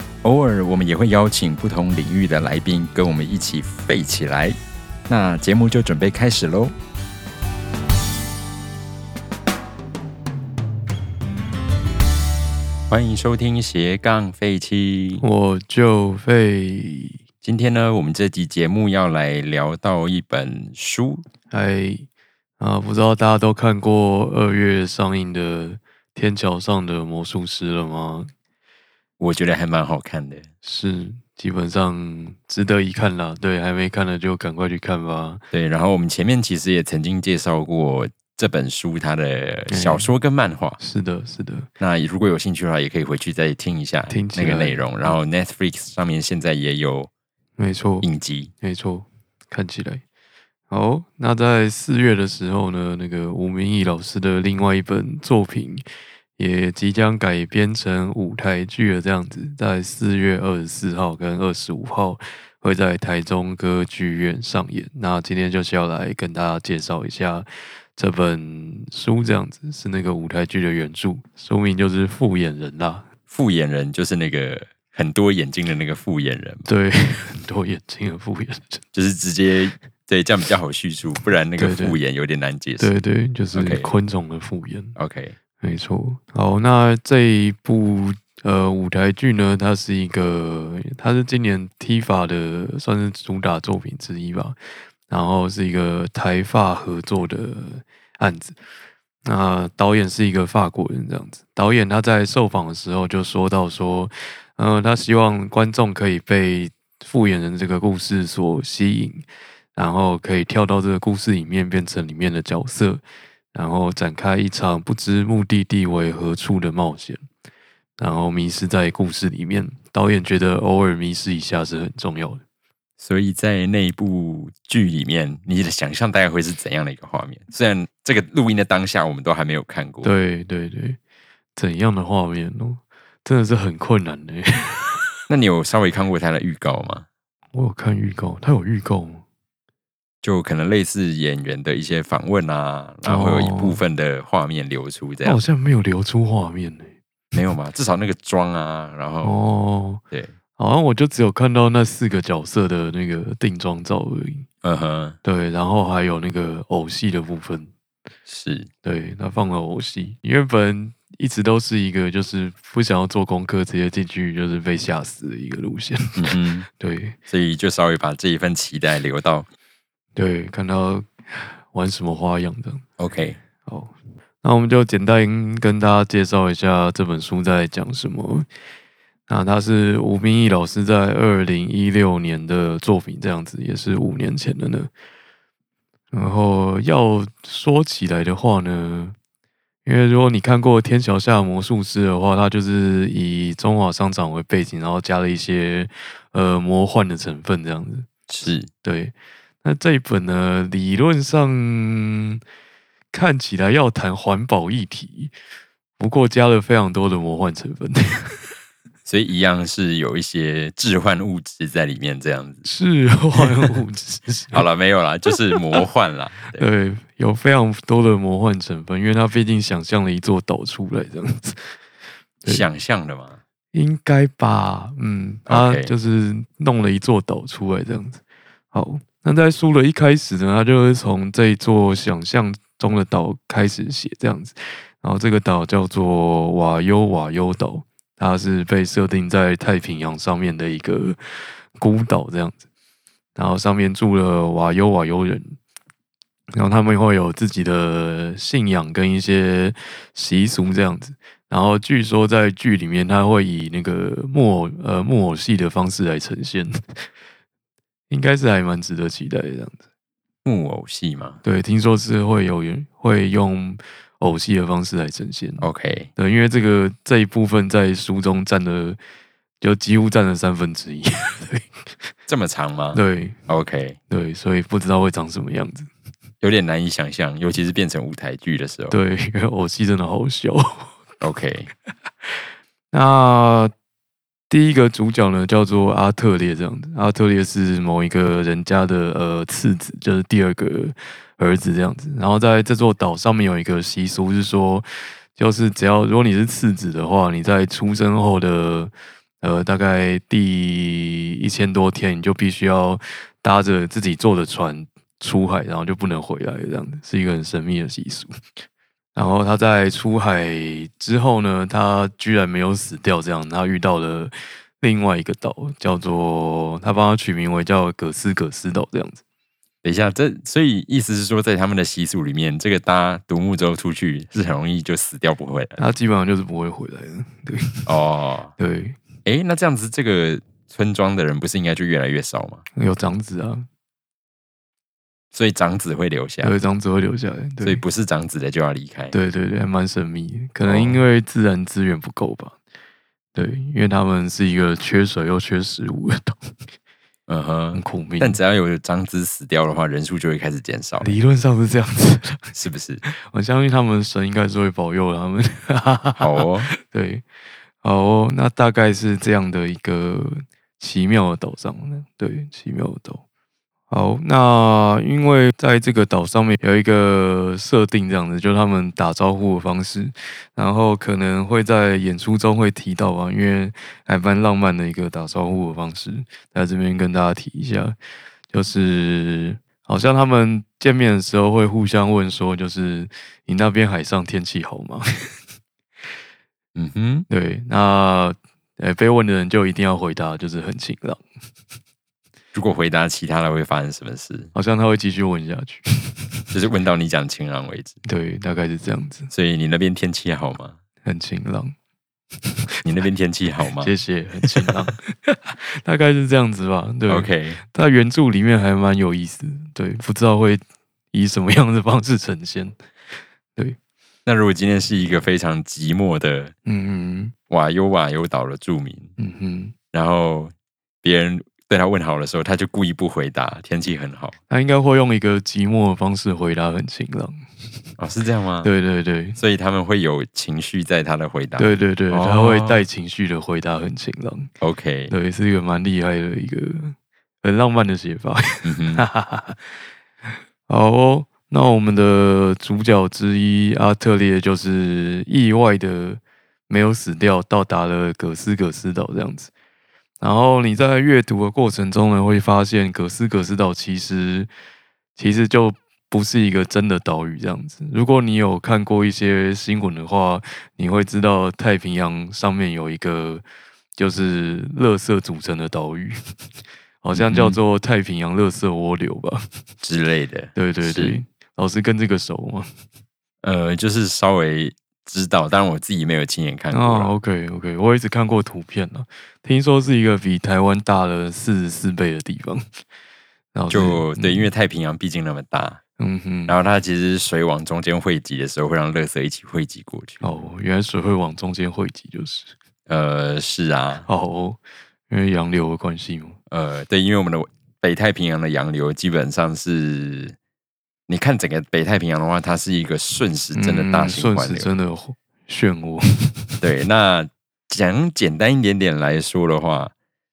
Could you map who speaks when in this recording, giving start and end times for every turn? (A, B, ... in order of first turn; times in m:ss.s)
0:00.2-0:04.6 A
0:05.1-0:06.8 A
0:12.9-0:15.2 A
0:15.2-0:17.2 B
0:17.4-0:21.2 A
0:21.5-0:22.1 B
0:22.6-0:28.3 B
0:29.2-0:30.5 A
0:30.6-0:35.4 B
0:35.5-0:40.8 A
0:39.7-0:40.1 B
0:40.8-0:41.7 B
0:41.8-0:47.1 A
0:44.1-0:45.1 B
0:47.6-0:48.1 B
0:48.0-0:48.5 A
0:48.6-0:50.0 B
0:50.7-0:55.8 B
0:56.4-1:13.1 B
1:13.3-1:16.7 A
1:16.7-1:18.8 B
1:18.9-1:22.9 A
1:21.6-1:22.0 B
1:22.8-1:25.0 B
1:23.5-1:23.9 A
1:25.0-1:25.4 A
1:25.6-1:34.6 B
1:35.1-1:38.6 B
1:39.2-1:53.0 B
1:53.5-1:57.2 B
1:58.0-2:02.4 B
2:03.0-2:10.1 A
2:10.0-2:11.0 B
2:11.6-2:15.1 B
2:15.3-2:17.1 A
2:17.5-2:19.2 B
2:20.2-2:25.4 A
2:23.0-2:23.8 B
2:25.2-2:26.9 B
2:27.3-2:29.4 A
2:29.2-2:30.0 B
2:30.6-2:34.5 B
2:34.6-2:35.2 A
2:35.2-2:37.7 B
2:38.3-2:38.7 A
2:38.8-2:46.2 B
2:46.2-2:46.7 A
2:46.8-2:47.2 B
2:47.3-2:49.5 A
2:50.2-2:52.8 B
2:53.0-2:53.4 A
2:53.7-2:58.5 B
2:59.3-3:04.9 B
3:06.1-3:09.2 B
3:09.8-3:18.1 B
3:18.3-3:18.7 A
3:18.8-3:22.4 B
3:23.1-3:25.3 B
3:26.0-3:28.4 B
3:29.1-3:32.6 A
3:32.6-3:34.6 B
3:33.4-3:33.8 A
3:34.5-3:36.6 A
3:36.6-3:41.7 B
3:42.5-3:43.4 A
3:43.7-3:48.2 B
3:45.5-3:45.9 A
3:48.7-4:01.2 B
4:01.8-4:02.6 B
4:03.4-4:05.6 B
4:06.6-4:16.8 B
4:18.1-4:19.8 B
4:20.4-4:21.4 A
4:21.4-4:29.0 B
4:25.6-4:26.1 A
4:29.6-4:31.7 B
4:32.3-4:34.0 A
4:32.9-4:33.4 B
4:34.1-4:35.9 B
4:36.4-4:39.0 A
4:38.9-4:40.9 B
4:41.2-4:41.7 A
4:42.9-4:43.7 B
4:44.5-5:08.3 B
5:09.2-5:19.2 B
5:19.8-5:25.8 A
5:25.8-5:27.9 B
5:27.9-5:28.5 A
5:28.6-5:29.0 B
5:29.2-5:32.6 A
5:32.8-5:33.7 B
5:35.3-5:36.5 A
5:36.4-5:37.8 B
5:37.6-5:39.2 A
5:39.1-5:42.6 B
5:40.7-5:41.0 A
5:43.4-5:46.5 B
5:47.3-5:51.2 A
5:47.7-5:48.4 B
5:51.0-5:52.5 B
5:52.5-5:53.0 A
5:53.1-5:57.2 B
5:56.2-5:56.7 A
5:57.8-6:03.2 B
6:03.9-6:18.0 B
6:18.5-6:25.3 B
6:26.8-6:27.3 A
6:27.3-6:31.2 B
6:32.5-6:34.5 A
6:34.5-6:36.4 B
6:36.5-6:38.0 A
6:38.0-6:39.3 B
6:39.3-6:40.8 A
6:41.0-6:41.7 B
6:42.8-6:44.9 A
6:43.8-6:50.6 B
6:47.1-6:47.6 A
6:51.1-6:52.8 B
6:54.3-6:56.5 A
6:56.7-6:57.3 B
6:57.5-6:59.1 A
6:59.2-6:59.7 B
6:59.9-7:04.4 A
7:04.5-7:07.4 B
7:08.0-7:08.7 A
7:08.6-7:09.4 B
7:09.4-7:12.8 A
7:11.6-7:14.5 B
7:14.6-7:15.1 A
7:15.1-7:19.6 B
7:18.6-7:19.0 A
7:20.7-7:29.5 B
7:30.2-7:34.5 B
7:35.2-7:43.4 B
7:44.0-7:46.2 B
7:47.0-7:49.5 B
7:47.2-7:47.6 A
7:49.8-7:51.2 A
7:50.6-7:52.7 B
7:53.4-7:57.1 A
7:56.7-8:02.6 B
8:03.5-8:04.5 B
8:03.7-8:05.8 A
8:06.0-8:06.6 B
8:06.5-8:10.2 A
8:10.2-8:12.5 B
8:12.9-8:14.1 A
8:14.1-8:16.4 B
8:16.5-8:20.4 A
8:21.1-8:24.7 A
8:23.6-8:26.6 B
8:26.6-8:29.9 A